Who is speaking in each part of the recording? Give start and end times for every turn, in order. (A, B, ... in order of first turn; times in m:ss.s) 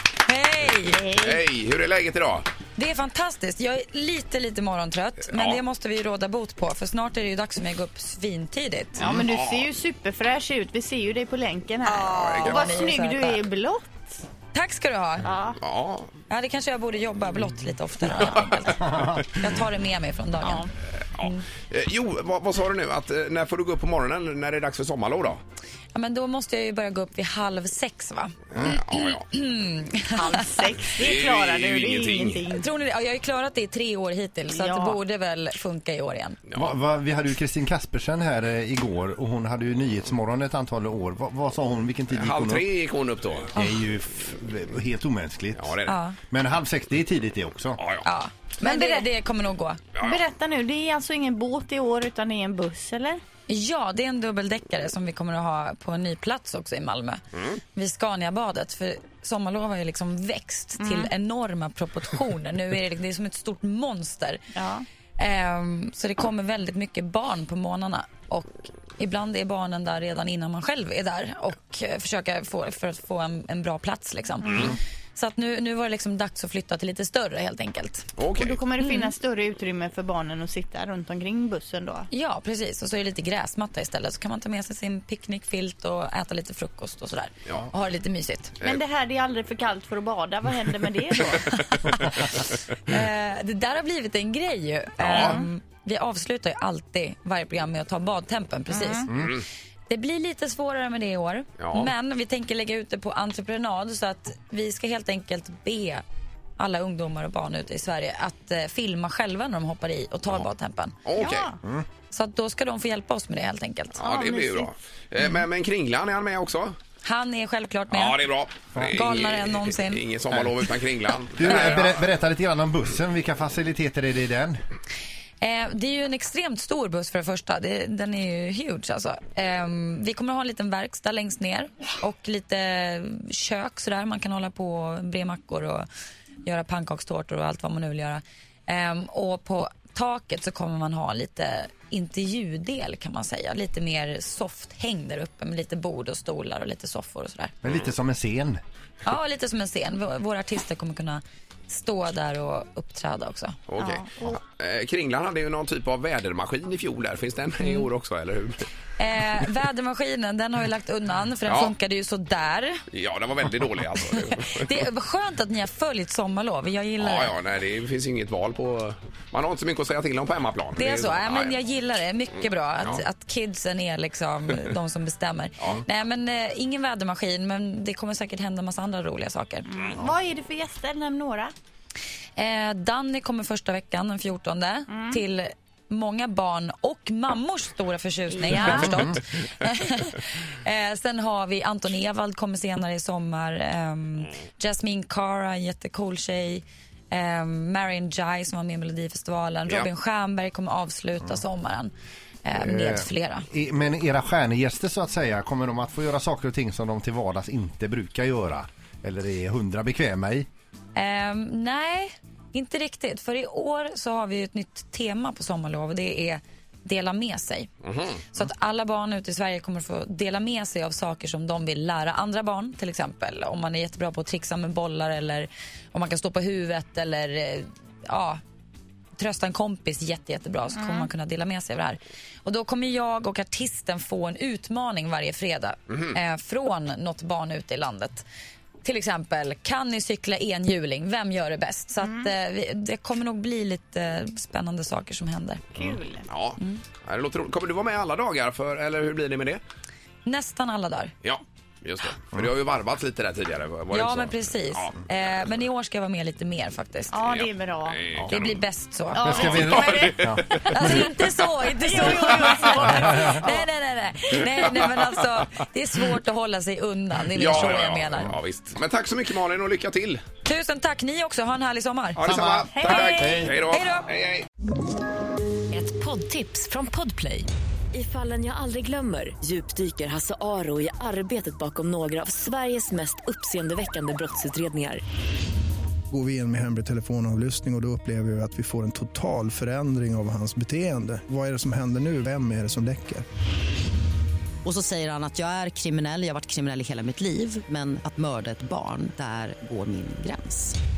0:00.2-0:01.0 A
0:00.9-0:01.4 B
0:01.2-0:02.5 C
0:02.8-0:09.1 A
0:05.3-0:05.6 C
0:09.0-0:09.7 C
0:09.0-0:13.9 B
0:11.8-0:13.4 A
0:12.1-0:12.8 C
0:14.5-0:15.3 A
0:15.2-0:15.6 B
0:15.6-0:16.1 C
0:16.3-0:20.7 A
0:18.7-0:19.3 D
0:20.4-0:20.7 B
0:21.1-0:25.4 C
0:26.0-0:30.7 A
0:28.5-0:29.3 C
0:30.2-0:32.7 B
0:31.0-0:32.4 C
0:32.5-0:36.4 A
0:34.5-0:35.0 B
0:36.5-0:36.8 C
0:36.5-0:42.7 D
0:42.1-0:43.5 C
0:43.5-0:47.8 D
0:43.6-0:43.8 A
0:45.6-0:46.0 C
0:45.9-0:46.2 A
0:47.8-0:48.1 C
0:48.0-0:49.8 A
0:48.6-0:49.1 B
0:50.0-0:50.2 C
0:50.0-0:53.2 B
0:53.5-0:57.2 A
0:57.7-1:04.4 A
1:00.8-1:01.1 B
1:04.5-1:04.8 B
1:05.2-1:18.1 A
1:14.4-1:14.8 B
1:18.2-1:18.6 C
1:18.4-1:22.1 B
1:18.8-1:19.1 A
1:22.1-1:28.6 A
1:28.6-1:31.6 B
1:31.8-1:32.1 A
1:32.8-1:46.0 A
1:35.0-1:35.4 C
1:35.1-1:35.4 B
1:38.7-1:39.1 B
1:41.6-1:41.9 C
1:46.6-1:51.0 A
1:51.0-1:51.5 C
1:51.2-1:51.6 B
1:52.1-1:54.0 A
1:54.0-1:56.8 C
1:54.0-1:54.7 B
1:57.0-1:58.2 A
1:57.9-2:02.0 C
1:58.8-1:59.1 D
1:58.8-2:00.0 A
2:01.4-2:04.6 D
2:01.4-2:01.8 A
2:05.4-2:15.9 A
2:16.4-2:27.5 A
2:27.6-2:28.6 D
2:29.0-2:33.6 A
2:33.7-2:38.7 C
2:33.8-2:34.3 B
2:39.0-2:42.8 A
2:41.5-2:41.7 C
2:42.9-2:44.8 C
2:44.1-2:47.4 A
2:47.0-2:51.6 C
2:50.8-2:59.7 A
2:59.7-3:01.5 B
3:02.4-3:21.9 A
3:04.9-3:05.2 B
3:08.4-3:09.0 B
3:08.6-3:09.0 D
3:22.4-3:23.5 A
3:22.5-3:30.5 D
3:31.0-3:37.7 A
3:37.8-3:38.1 C
3:38.3-3:48.4 A
3:49.2-3:58.2 A
3:50.8-3:51.1 B
3:58.8-4:05.6 A
4:05.8-4:06.3 B
4:05.8-4:09.6 C
4:10.2-4:11.1 A
4:11.2-4:14.9 C
4:13.9-4:17.2 A
4:17.1-4:18.0 B
4:17.2-4:18.5 C
4:18.3-4:19.9 A
4:19.1-4:23.7 B
4:19.2-4:21.0 D
4:19.3-4:21.0 C
4:20.6-4:28.4 A
4:27.3-4:30.2 C
4:30.4-4:32.2 A
4:32.2-4:34.5 C
4:32.2-4:33.5 D
4:32.7-4:33.5 B
4:33.7-4:34.1 A
4:35.7-4:45.0 E
4:46.1-4:53.2 F
4:54.6-5:00.8 G